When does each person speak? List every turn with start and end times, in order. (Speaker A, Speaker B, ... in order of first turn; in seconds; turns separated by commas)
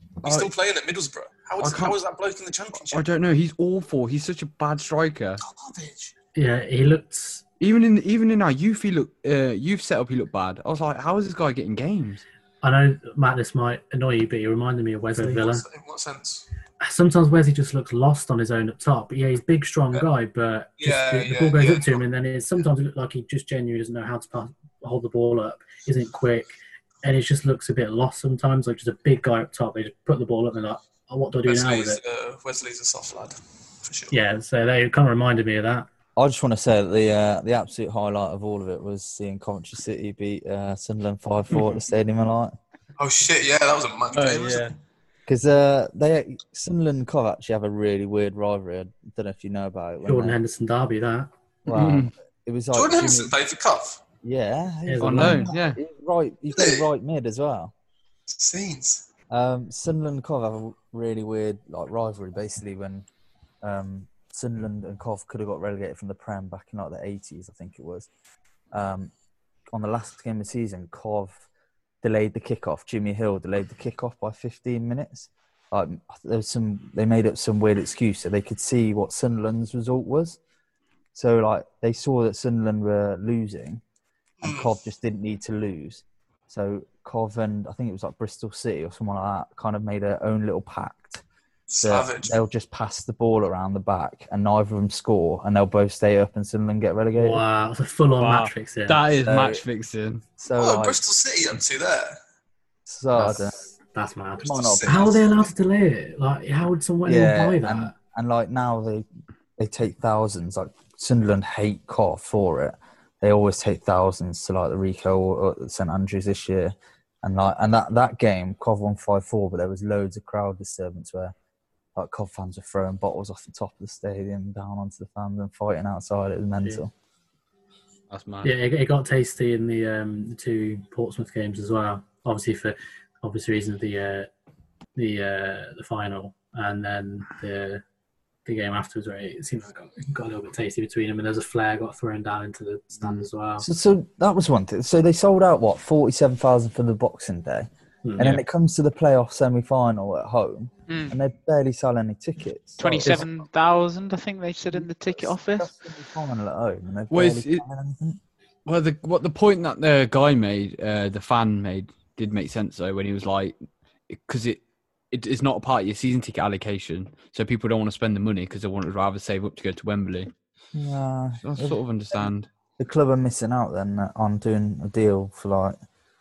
Speaker A: 0.2-3.0, Speaker B: 0.2-0.5, Speaker B: 1.6-2.0, Speaker B: 2.9-5.4, Speaker A: 5.4-6.1, Speaker C: 6.3-7.4, Speaker B: 7.6-12.2, Speaker C: 12.6-15.6, Speaker A: 15.2-16.5, Speaker C: 16.8-32.0, Speaker A: 20.8-22.0, Speaker A: 31.4-34.1, Speaker C: 34.1-35.9, Speaker D: 36.1-42.5, Speaker A: 43.0-44.7, Speaker B: 44.1-44.7, Speaker D: 45.3-50.4, Speaker C: 50.0-51.3, Speaker D: 51.6-53.3, Speaker B: 51.7-52.1, Speaker A: 52.7-54.0, Speaker D: 54.2-57.7, Speaker C: 54.9-55.5, Speaker B: 55.0-55.8, Speaker A: 56.5-56.8, Speaker A: 58.3-59.0, Speaker D: 59.3-63.0, Speaker D: 63.6-68.1, Speaker D: 68.7-69.1, Speaker D: 69.7-71.4, Speaker D: 72.0-80.4, Speaker D: 81.1-83.8, Speaker A: 84.4-84.7, Speaker D: 84.4-91.2, Speaker A: 91.7-92.3, Speaker D: 91.8-97.4, Speaker C: 97.1-99.0, Speaker B: 98.2-100.2, Speaker D: 99.2-99.6, Speaker D: 100.4-101.0, Speaker A: 100.6-102.2, Speaker D: 102.9-103.7, Speaker C: 103.1-107.9, Speaker A: 104.4-105.5, Speaker D: 104.4-105.1, Speaker D: 107.0-109.0, Speaker D: 109.6-121.3, Speaker D: 121.9-126.9, Speaker B: 128.1-128.5, Speaker C: 128.4-134.3, Speaker C: 134.9-137.8, Speaker C: 138.4-143.7, Speaker D: 143.1-153.3, Speaker C: 148.0-148.4, Speaker E: 150.9-151.1, Speaker E: 152.8-155.7, Speaker D: 154.7-158.2, Speaker B: 157.1-157.6, Speaker B: 158.7-163.5, Speaker B: 164.1-170.3, Speaker D: 170.7-172.3, Speaker B: 171.4-172.5, Speaker D: 172.8-175.8